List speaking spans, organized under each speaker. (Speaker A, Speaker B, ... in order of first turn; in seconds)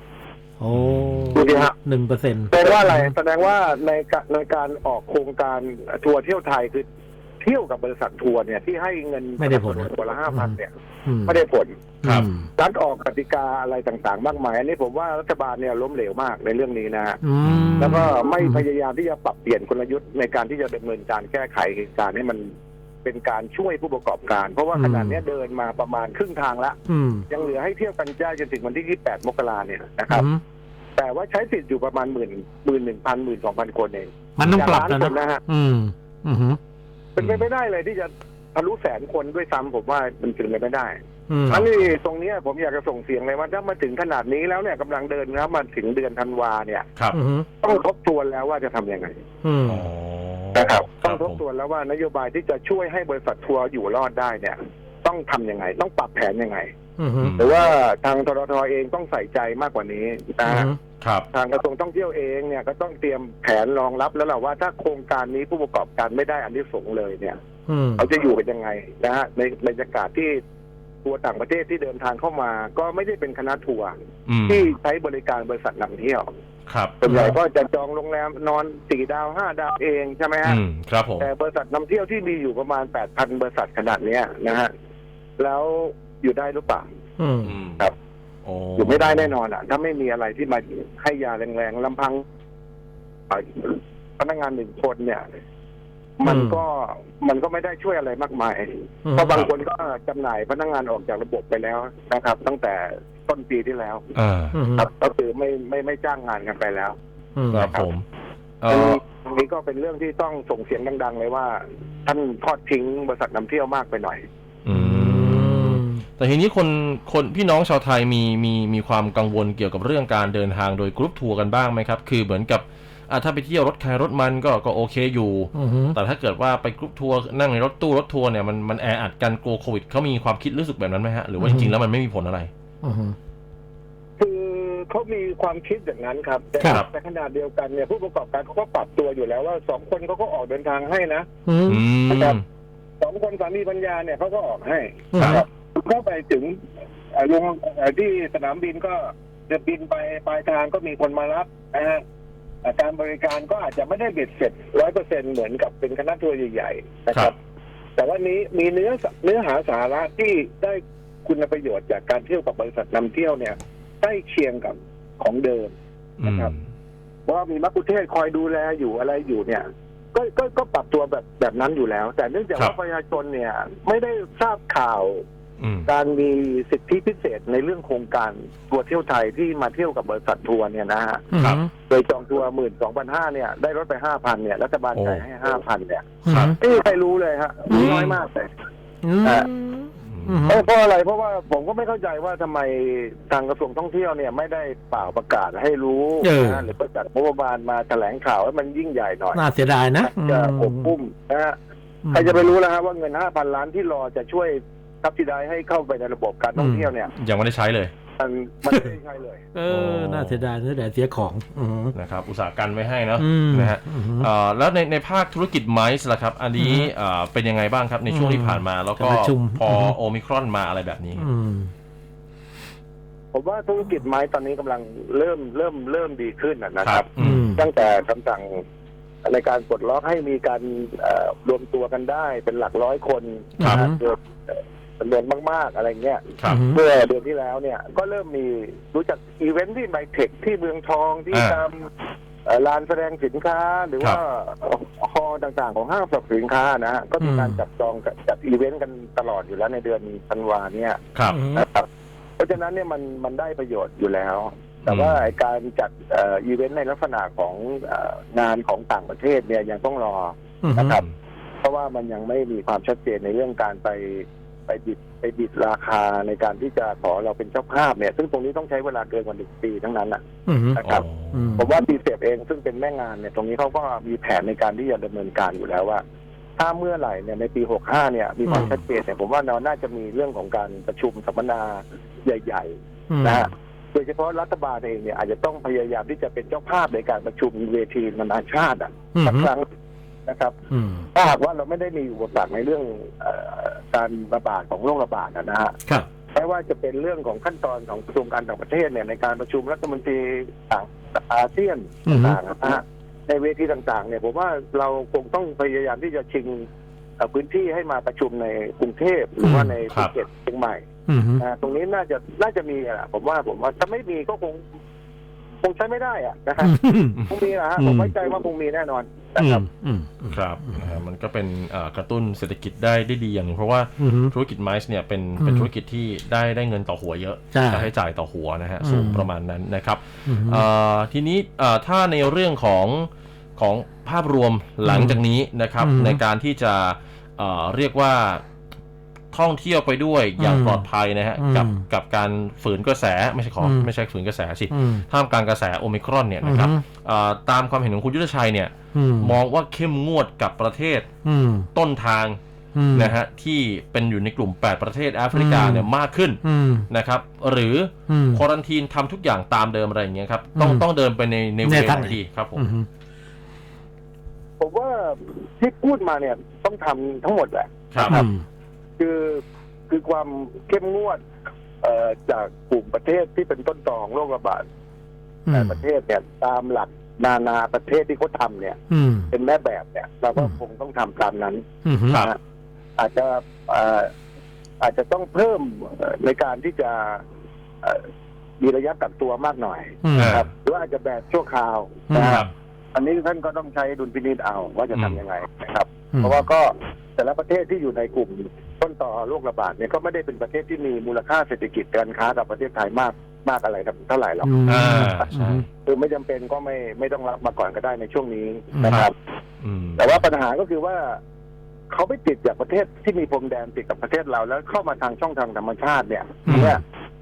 Speaker A: 0.6-3.1, 9.4-11.4, 12.0-12.5, 17.2-18.6, 24.7-25.2, 26.9-27.2, 30.1-30.4, 34.4-36.6, 41.3-41.6, 47.1-47.5, 49.4-49.9, 57.0-57.4, 60.4-60.8, 67.7-68.1, 77.1-77.3, 87.2-87.5, 96.2-96.6, 99.0-99.4, 104.5-104.9, 107.3-107.7, 114.7-116.0, 125.5-126.0, 131.4-131.7, 132.8-133.1, 141.4-141.8, 145.1-145.4, 181.3-181.7, 186.2-186.6, 187.7-188.1, 189.0-190.7, 196.2-196.7, 199.3-200.9, 202.0-202.5, 206.6-206.9, 209.5-211.9, 213.2-214.3, 216.6-216.9, 218.1-219.9, 221.2-221.7, 227.2-227.7, 233.6-234.0, 236.5-236.8, 247.2-247.6, 251.3-251.6, 260.6-261.0, 270.4-270.8, 271.3-271.7, 278.4-278.8, 283.1-283.5, 289.1-289.5, 290.7-291.1, 302.1-302.4, 309.4-309.7, 311.1-311.4, 316.6-317.2, 317.8-318.1, 319.4-321.0, 324.0-324.3, 325.4-325.7, 327.5-327.9, 328.8-329.3, 330.2-330.6, 334.8-335.2, 335.8-336.2, 340.4-340.8, 341.4-341.8, 343.6-343.9, 344.7-345.0, 346.4-346.8, 348.9-349.4, 351.2-351.7, 352.7-353.1, 355.3-355.9, 356.4-356.9, 358.1-358.4, 360.6-360.9, 361.6-362.9, 368.0-368.4, 375.5-375.8, 378.9-379.3, 381.8-382.2, 390.0-390.4, 392.1-392.4, 396.1-396.4, 404.4-405.6, 408.7-409.0, 416.4-416.8
Speaker B: 0.7-1.4, 17.4-18.1, 37.2-37.5, 49.7-51.4, 57.2-57.5, 61.0-61.3, 74.3-74.7, 76.7-76.9, 80.4-81.3, 87.4-87.8, 88.4-89.3, 104.1-104.6, 107.5-108.0, 108.6-109.0, 114.6-132.5, 141.7-142.4, 145.1-145.4, 166.2-166.6, 175.6-175.9, 181.4-181.6, 184.9-185.2, 186.2-186.5, 187.7-188.2, 190.0-190.5, 207.2-207.9, 209.7-210.5, 211.9-221.2, 226.8-227.5, 241.3-241.6, 254.8-255.2, 270.8-271.6, 320.3-338.4, 339.3-351.1, 351.7-352.4, 352.9-362.6, 367.9-368.2, 390.2-390.4, 392.1-392.5, 394.9-395.2, 404.6-405.6, 409.6-410.1
Speaker C: 1.3-1.7, 2.5-6.8, 7.4-10.7, 11.2-11.7, 12.6-17.2, 17.8-22.5, 23.0-26.8, 27.3-30.3, 31.0-35.4, 37.1-41.0, 41.5-46.9, 47.6-49.1, 50.5-56.7, 57.4-60.7, 61.3-67.4, 68.0-70.4, 71.0-73.9, 74.5-76.3, 77.0-80.6, 81.2-84.7, 85.4-86.8, 88.8-92.2, 93.3-95.2, 96.2-104.0, 104.8-106.9, 108.7-114.2, 134.2-141.3, 142.1-142.4, 143.0-146.6, 147.1-152.0, 152.6-157.3, 158.0-165.7, 166.2-166.5, 167.3-175.2, 175.9-181.2, 181.9-186.1, 186.6-188.5, 190.5-199.4, 200.0-201.6, 202.1-207.1, 208.2-209.4, 223.3-228.6, 229.2-241.9, 242.4-251.0, 251.5-251.9, 252.4-261.0, 261.6-270.2, 270.8-271.0, 271.6-276.0, 276.6-289.6, 290.3-290.5, 291.1-295.8, 296.3-306.6, 307.2-310.8, 311.4-314.6, 315.6-316.8, 317.3-319.6, 364.6-368.2, 369.0-371.2, 371.8-374.6, 375.5-378.8, 379.3-382.4, 383.0-384.1, 384.8-387.2, 388.6-404.6, 405.8-409.1, 410.0-411.2, 411.9-416.8